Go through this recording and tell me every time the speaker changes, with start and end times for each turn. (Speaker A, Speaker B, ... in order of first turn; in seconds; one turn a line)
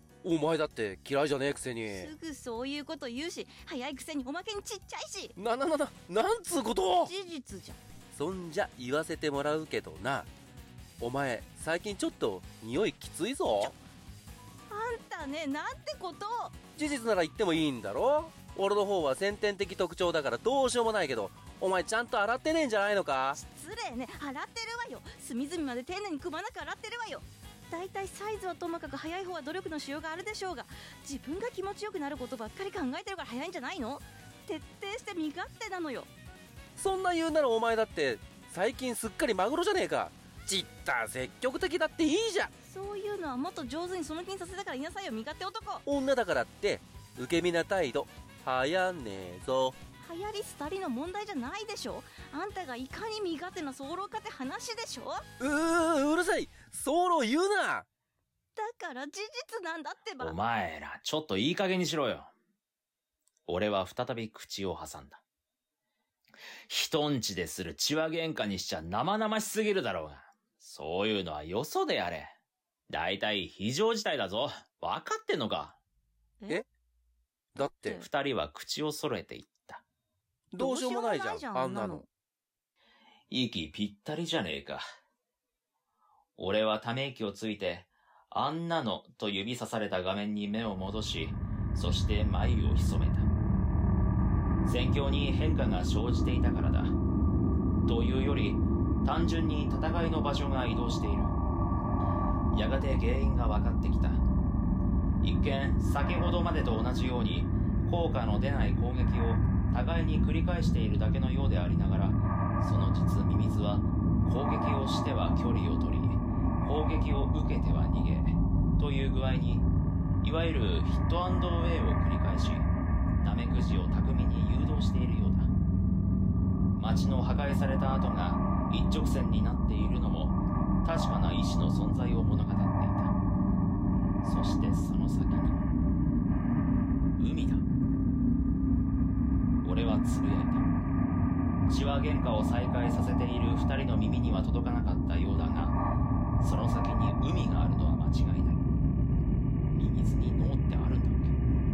Speaker A: 0.2-2.1
Speaker B: 1.9-5.3
Speaker A: 5.4-7.1
Speaker B: 7.0-7.8
Speaker A: 8.1-10.3
Speaker A: 11.0-13.7
Speaker B: 14.7-16.6
Speaker A: 16.8-23.4
Speaker B: 23.3-36.1
Speaker A: 36.8-42.5
Speaker B: 42.6-45.9
Speaker A: 45.9-49.8
Speaker B: 50.0-55.2
Speaker A: 55.4-57.9
Speaker B: 58.6-60.4
Speaker C: 60.2-62.3
Speaker C: 63.5-65.2
Speaker C: 66.7-72.3
Speaker C: 72.9-75.8
Speaker B: 76.4-76.7
Speaker A: 77.5-78.0
Speaker B: 77.6-78.1
Speaker C: 78.0-79.8
Speaker A: 80.5-82.0
Speaker B: 80.6-82.1
Speaker C: 83.3-84.8
Speaker C: 86.4-93.3
Speaker C: 94.6-97.0
Speaker C: 97.9-101.4
Speaker C: 102.5-104.2
Speaker C: 105.2-119.7
Speaker C: 120.2-125.5
Speaker C: 126.8-133.2
Speaker C: 134.2-135.7
Speaker C: 137.2-137.7
Speaker C: 139.6-140.7
Speaker C: 141.7-145.8
Speaker C: 146.4-148.6
Speaker C: 149.7-151.4